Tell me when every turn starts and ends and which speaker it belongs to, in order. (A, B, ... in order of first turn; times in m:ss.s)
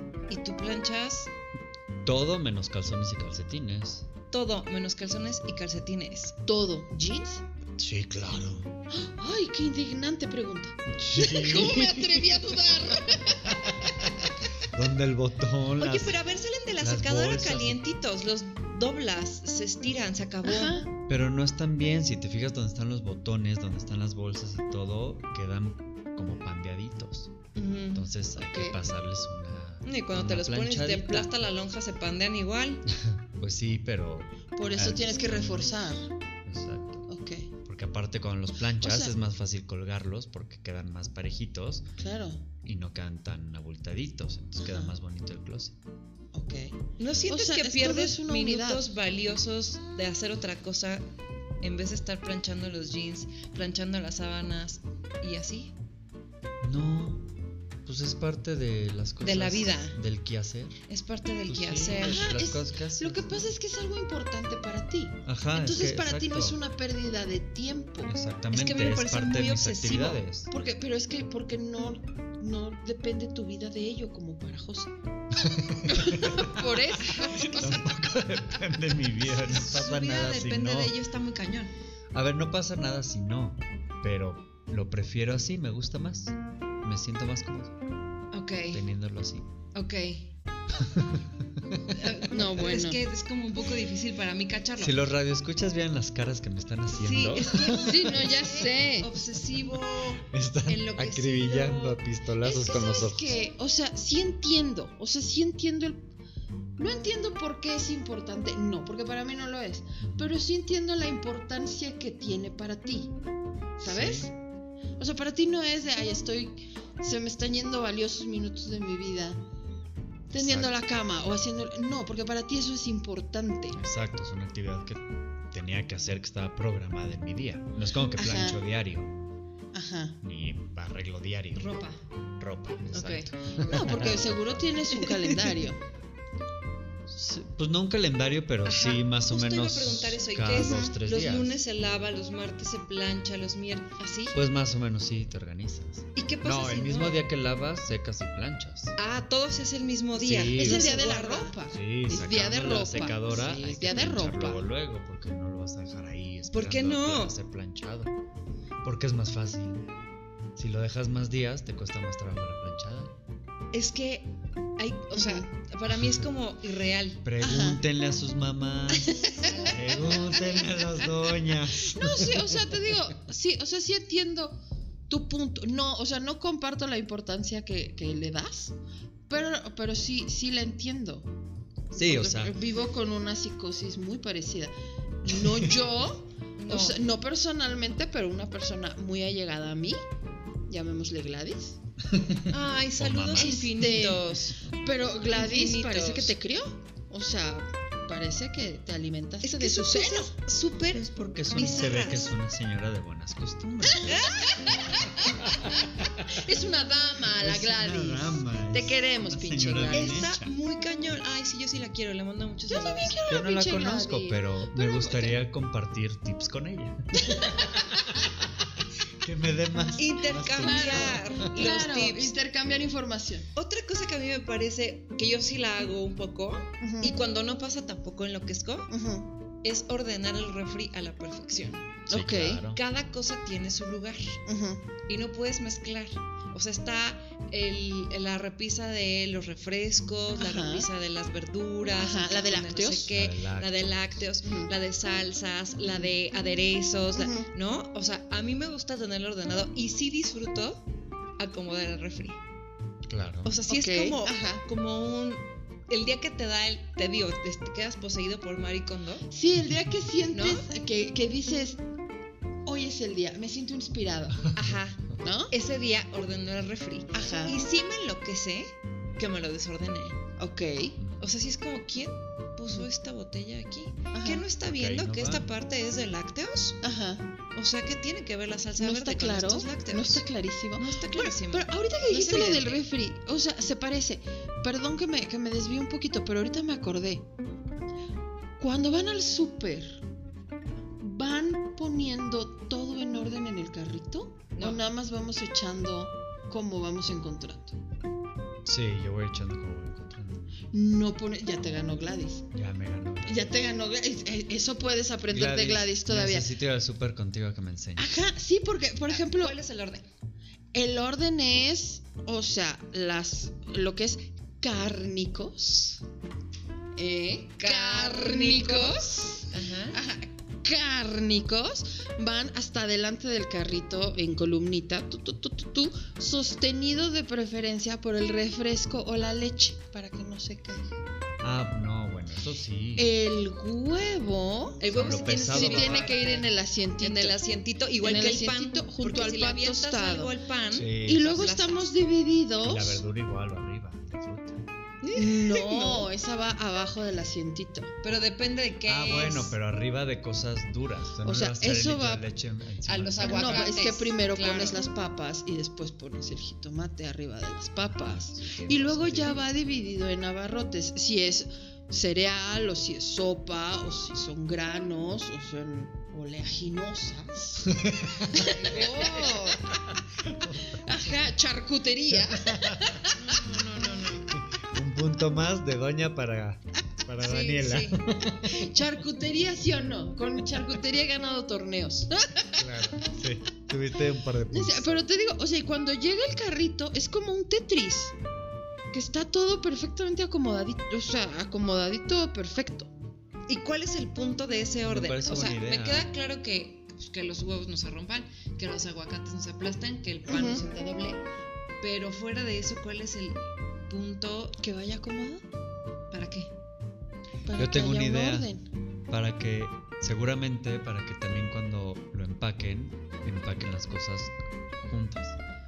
0:00.3-0:01.3 A
0:02.0-0:04.0 B
0:04.3-0:06.3 A
0:06.4-0:07.4 C
0:07.8-0:08.7 B
0:08.9-0:14.2 C
0:10.9-0:12.4 B
0:13.4-0:16.2 B
0:15.8-0:20.8 A
0:16.8-0:17.8 B
0:20.4-0:20.9 C
0:21.1-0:27.3 B
0:27.5-0:28.1 A
0:27.9-0:31.3 B
0:28.3-0:28.8 C
0:29.8-0:32.8 A
0:32.9-0:35.7 B
0:34.6-0:36.1 C
0:36.4-0:37.0 B
0:37.1-0:37.5 C
0:37.6-0:41.8 B
0:38.8-0:39.1 C
0:42.0-0:42.4 C
0:42.6-0:45.7 B
0:44.6-0:44.9 C
0:46.3-0:46.8 C
0:47.0-0:51.0 A
0:47.3-0:48.9 C
0:51.6-0:55.7 A
0:56.6-0:57.3 B
0:57.8-1:00.8 B
0:59.2-1:00.0 A
1:00.9-1:02.4 A
1:01.5-1:03.5 B
1:02.0-1:08.1 C
1:05.2-1:06.6 B
1:08.0-1:10.5 B
1:08.5-1:10.2 A
1:10.5-1:14.9 C
1:15.5-1:16.6 B
1:15.5-1:17.9 C
1:17.0-1:17.9 A
1:17.6-1:20.9 B
1:19.2-1:21.7 A
1:22.1-1:27.7 B
1:28.3-1:28.8 A
1:28.7-1:29.5 B
1:29.7-1:30.3 A
1:30.7-1:32.0 B
1:31.9-1:35.0 A
1:32.3-1:33.0 C
1:34.8-1:38.1 B
1:36.9-1:42.0 A
1:37.7-1:39.1 C
1:40.2-1:43.4 B
1:42.4-1:46.0 C
1:46.8-1:53.1 C
1:50.0-1:50.4 B
1:53.8-1:54.3 C
1:53.8-1:54.3 B
1:55.0-1:59.4 C
2:00.3-2:00.7 B
2:00.3-2:03.8 C
2:03.8-2:09.1 B
2:08.2-2:08.6 C
2:09.7-2:10.2 C
2:10.2-2:11.7 B
2:11.5-2:12.0 A
2:12.4-2:14.8 B
2:12.9-2:13.3 A
2:13.6-2:15.8 C
2:15.0-2:15.3 A
2:17.1-2:21.6 B
2:18.6-2:24.4 A
2:20.5-2:20.9 C
2:24.3-2:28.9 B
2:26.2-2:27.2 A
2:29.0-2:31.5 A
2:30.2-2:38.1 B
2:30.5-2:34.6 C
2:36.5-2:37.3 A
2:38.8-2:39.9 B
2:40.6-2:43.1 B
2:43.7-2:47.2 A
2:45.1-2:45.4 C
2:45.9-2:46.2 B
2:47.2-2:52.8 B
2:47.4-2:47.8 C
2:48.9-2:49.5 C
2:49.4-2:50.4 A
2:50.2-2:51.1 C
2:51.8-2:54.6 C
2:55.1-2:58.7 C
2:59.3-3:01.3 C
3:01.9-3:10.0 C
3:01.9-3:02.6 B
3:05.3-3:05.8 B
3:06.6-3:07.0 A
3:10.7-3:11.8 C
3:12.1-3:12.5 B
3:12.5-3:14.6 A
3:13.0-3:13.6 B
3:13.4-3:20.3 C
3:15.3-3:16.3 A
3:19.4-3:22.3 A
3:20.9-3:24.4 B
3:24.0-3:24.6 A
3:24.4-3:25.5 C
3:25.2-3:26.4 B
3:26.3-3:30.3 C
3:27.4-3:30.5 B
3:29.9-3:33.2 A
3:32.7-3:35.4 C
3:33.3-3:41.3 B
3:37.2-3:38.2 C
3:39.7-3:40.0 C
3:40.0-3:42.4 A
3:40.6-3:43.5 C
3:43.5-3:48.9 A
3:46.8-3:47.2 C
3:48.9-3:49.3 C
3:49.6-3:51.9 A
3:52.1-3:52.6 C
3:52.1-3:52.8 B
3:52.7-3:54.4 A
3:54.5-3:54.8 C
3:55.1-4:10.8 A
4:00.4-4:00.8 C
4:02.0-4:03.1 C
4:03.1-4:04.2 B
4:04.4-4:04.7 C
4:07.1-4:07.5 C
4:11.4-4:12.4 A
4:13.1-4:13.5 B
4:13.4-4:19.2 A
4:13.7-4:14.6 C
4:19.3-4:21.8 C
4:20.3-4:20.7 A
4:22.6-4:24.5 C
4:24.3-4:25.1 B
4:24.5-4:30.2 A
4:25.2-4:25.5 C
4:27.1-4:27.6 C
4:30.4-4:31.0 C
4:31.0-4:31.2 B
4:31.2-4:36.8 A
4:34.1-4:34.4 C
4:34.7-4:35.5 B
4:36.8-4:37.2 C
4:37.5-4:40.2 A
4:38.8-4:47.2 C
4:40.8-4:42.8 A
4:48.6-4:50.0 C
4:51.0-4:57.8 C
4:54.5-4:54.8 A
4:58.6-5:00.5 B
5:00.7-5:02.5 C
5:02.5-5:03.5 B
5:03.2-5:06.5 C
5:05.3-5:08.2 B
5:08.0-5:09.6 C
5:09.1-5:10.1 A
5:10.7-5:16.0 C
5:17.0-5:30.9 C
5:17.6-5:20.0 A
5:31.4-5:33.1 B
5:33.0-5:37.4 C
5:34.8-5:36.5 A
5:34.9-5:36.1 B
5:37.0-5:41.9 A
5:38.0-5:40.3 C
5:40.7-5:41.4 B
5:41.0-5:43.0 C
5:42.6-5:44.6 B
5:45.0-5:46.1 A
5:45.1-5:47.9 C
5:48.0-5:49.5 A
5:48.8-5:53.7 B
5:51.2-5:52.2 C
5:52.8-5:54.8 A
5:53.2-6:09.8 C
5:57.8-5:59.4 B
6:07.6-6:08.7 B
6:08.4-6:09.3 A
6:09.7-6:10.9 B
6:10.6-6:13.4 C
6:12.1-6:13.0 B
6:13.1-6:14.3 A
6:14.1-6:18.7 B
6:17.2-6:18.1 A
6:18.4-6:22.8 C
6:22.6-6:25.0 B
6:24.5-6:28.1 C
6:28.9-6:32.9 C
6:33.5-6:41.2 A
6:34.8-6:36.1 B
6:40.2-6:40.6 C
6:41.8-6:44.6 A
6:44.6-6:45.4 C
6:46.1-6:46.5 A
6:47.4-6:48.6 C
6:47.5-6:48.5 B
6:49.1-6:55.4 B